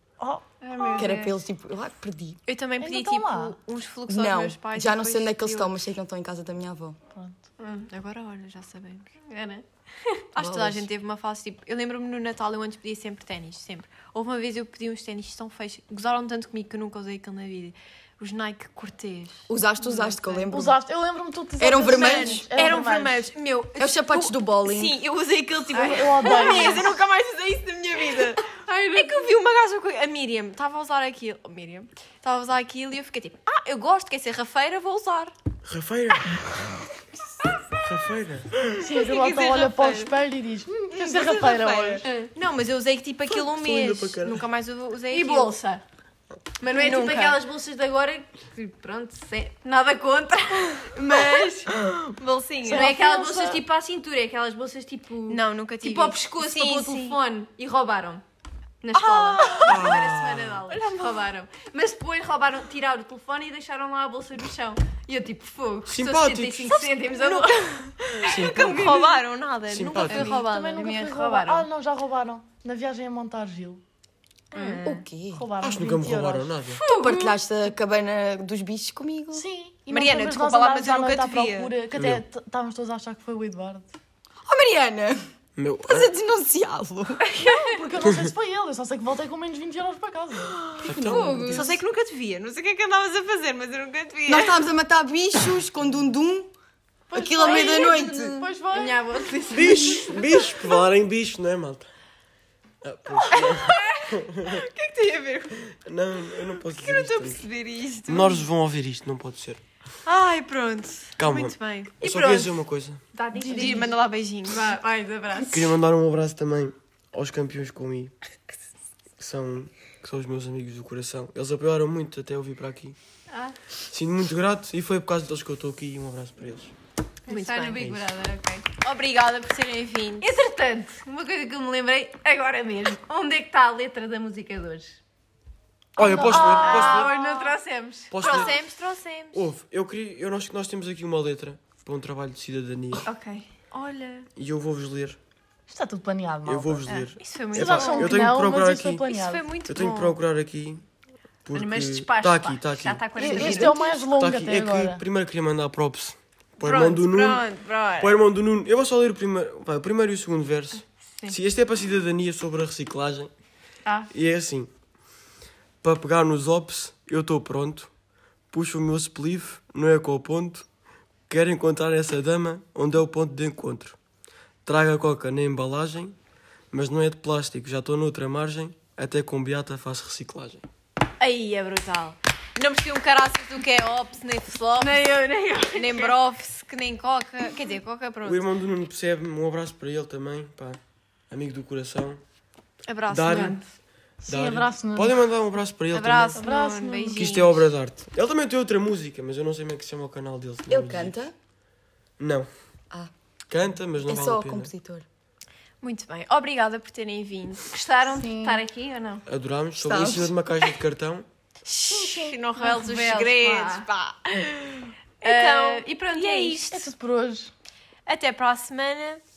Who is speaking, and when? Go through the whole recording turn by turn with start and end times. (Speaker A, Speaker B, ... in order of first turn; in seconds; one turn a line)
Speaker A: 0.2-1.0
Speaker B: 0.6-1.4
Speaker C: 0.9-2.4
Speaker D: 2.5-5.7
Speaker A: 2.8-3.6
Speaker C: 4.1-7.0
Speaker B: 7.6-7.9
Speaker D: 7.9-9.1
Speaker B: 9.2-10.2
Speaker D: 10.3-20.4
Speaker C: 10.4-10.9
Speaker C: 19.5-20.8
Speaker A: 20.5-23.3
Speaker C: 21.6-22.4
Speaker D: 21.8-35.3
Speaker C: 23.7-25.0
Speaker B: 25.7-26.9
Speaker A: 25.7-26.9
Speaker B: 28.9-29.2
Speaker E: 35.6-36.7
Speaker E: 37.8-38.9
Speaker A: 38.8-42.0
Speaker D: 38.9-40.1
Speaker D: 40.9-45.5
Speaker B: 42.0-42.3
Speaker E: 43.3-44.4
Speaker B: 45.1-45.8
Speaker B: 46.6-51.7
Speaker D: 46.7-47.4
Speaker D: 51.1-52.9
Speaker A: 52.6-53.6
Speaker B: 52.7-58.2
Speaker D: 55.3-57.2
Speaker B: 58.8-67.8
Speaker D: 58.9-60.0
Speaker E: 59.6-60.7
Speaker D: 60.7-61.2
Speaker E: 65.9-66.8
Speaker D: 66.7-70.8
Speaker E: 68.3-69.0
Speaker B: 68.4-69.2
Speaker E: 69.7-70.3
Speaker B: 70.0-71.7
Speaker A: 70.0-73.8
Speaker D: 74.5-75.0
Speaker B: 74.5-74.8
Speaker C: 74.8-75.5
Speaker A: 75.3-76.5
Speaker E: 75.6-76.8
Speaker B: 76.7-77.4
Speaker C: 77.0-79.5
Speaker A: 79.3-84.0
Speaker D: 79.9-81.7
Speaker E: 82.0-82.2
Speaker C: 84.4-85.3
Speaker E: 85.6-86.1
Speaker C: 85.8-87.2
Speaker A: 87.4-90.6
Speaker E: 88.0-88.3
Speaker E: 90.8-91.8
Speaker C: 90.8-91.6
Speaker B: 91.0-91.7
Speaker D: 91.5-94.5
Speaker C: 94.3-96.5
Speaker A: 97.1-99.1
Speaker C: 97.1-98.5
Speaker B: 97.5-98.0
Speaker B: 98.7-100.4
Speaker E: 99.5-101.9
Speaker E: 102.8-104.7
Speaker D: 103.3-105.6
Speaker E: 105.7-107.4
Speaker D: 106.5-108.5
Speaker E: 108.0-109.6
Speaker D: 110.0-112.0
Speaker E: 111.2-113.0
Speaker B: 112.0-112.6
Speaker B: 113.1-115.8
Speaker A: 113.3-113.9
Speaker D: 113.5-114.7
Speaker E: 115.5-118.1
Speaker E: 119.2-123.0
Speaker B: 123.3-123.5
Speaker E: 123.9-126.7
Speaker B: 127.3-128.7
Speaker D: 127.3-127.8
Speaker E: 127.8-128.1
Speaker D: 128.7-130.4
Speaker B: 130.2-135.0
Speaker A: 136.0-137.0
Speaker E: 136.0-137.2
Speaker B: 136.0-138.5
Speaker D: 136.2-137.5
Speaker E: 138.1-138.6
Speaker D: 138.2-139.5
Speaker E: 139.3-143.1
Speaker B: 143.0-143.5
Speaker D: 143.7-144.3
Speaker E: 144.3-145.2
Speaker A: 145.7-146.9
Speaker E: 146.4-149.1
Speaker D: 146.9-148.3
Speaker A: 147.5-149.5
Speaker D: 149.1-150.2
Speaker E: 149.7-150.8
Speaker E: 151.4-157.5
Speaker B: 151.5-154.0
Speaker A: 153.2-155.0
Speaker D: 156.6-158.2
Speaker E: 158.0-163.3
Speaker B: 163.8-164.1
Speaker E: 164.1-164.7
Speaker E: 165.8-167.9
Speaker E: 168.5-170.7
Speaker E: 171.3-174.0
Speaker E: 174.6-176.2
Speaker E: 176.7-180.6
Speaker D: 181.2-185.1
Speaker B: 184.8-186.2
Speaker D: 185.7-188.4
Speaker E: 188.2-190.8
Speaker E: 191.3-192.2
Speaker D: 192.9-193.7
Speaker E: 193.1-193.6
Speaker B: 193.3-193.6
Speaker A: 194.2-195.3
Speaker E: 194.2-196.4
Speaker D: 195.9-197.7
Speaker A: 196.3-197.3
Speaker E: 197.2-201.2
Speaker C: 200.7-201.3
Speaker E: 202.2-202.5
Speaker E: 203.5-204.7
Speaker C: 204.0-205.0
Speaker D: 205.8-207.7
Speaker B: 207.7-209.2
Speaker A: 208.1-208.6
Speaker E: 209.2-211.2
Speaker C: 209.8-210.5
Speaker D: 211.6-216.9
Speaker A: 211.9-212.4
Speaker B: 212.6-213.9
Speaker B: 215.2-216.7
Speaker A: 216.7-217.5
Speaker D: 218.1-219.2